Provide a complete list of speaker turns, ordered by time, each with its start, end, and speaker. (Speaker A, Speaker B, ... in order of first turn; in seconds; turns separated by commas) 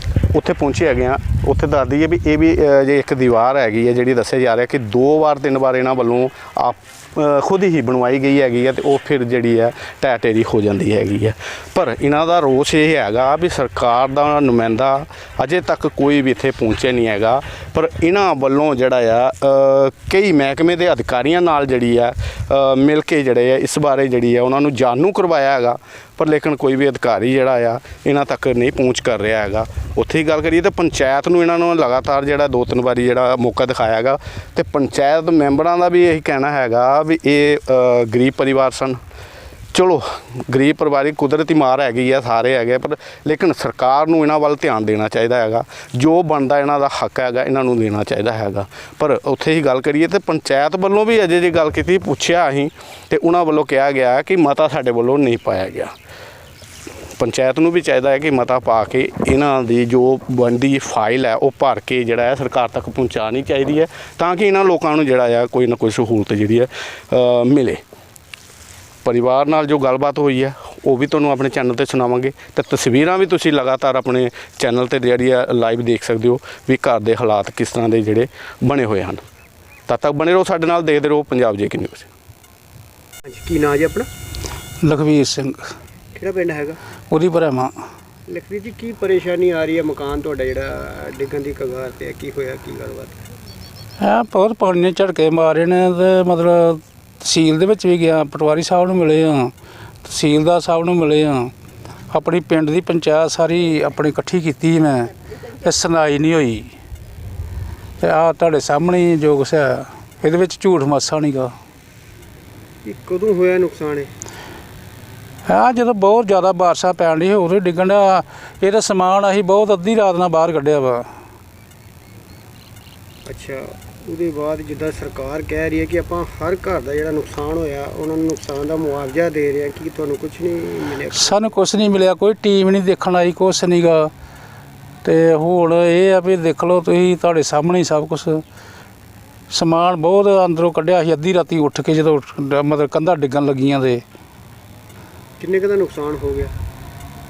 Speaker A: 0.3-39.0, Speaker A: 39.7-55.9, Speaker A: 57.2-67.8, Speaker A: 69.0-79.2, Speaker A: 79.9-82.1, Speaker B: 83.2-84.1, Speaker C: 84.8-85.6, Speaker B: 86.1-86.8, Speaker C: 87.1-87.7, Speaker B: 88.3-93.2, Speaker C: 94.0-99.5, Speaker C: 100.0-101.5, Speaker C: 102.1-106.7, Speaker C: 108.0-111.5, Speaker B: 112.8-114.1, Speaker C: 115.5-121.0, Speaker B: 123.2-131.6, Speaker C: 131.1-134.1, Speaker C: 135.0-138.4, Speaker C: 139.5-144.0, Speaker B: 145.4-146.5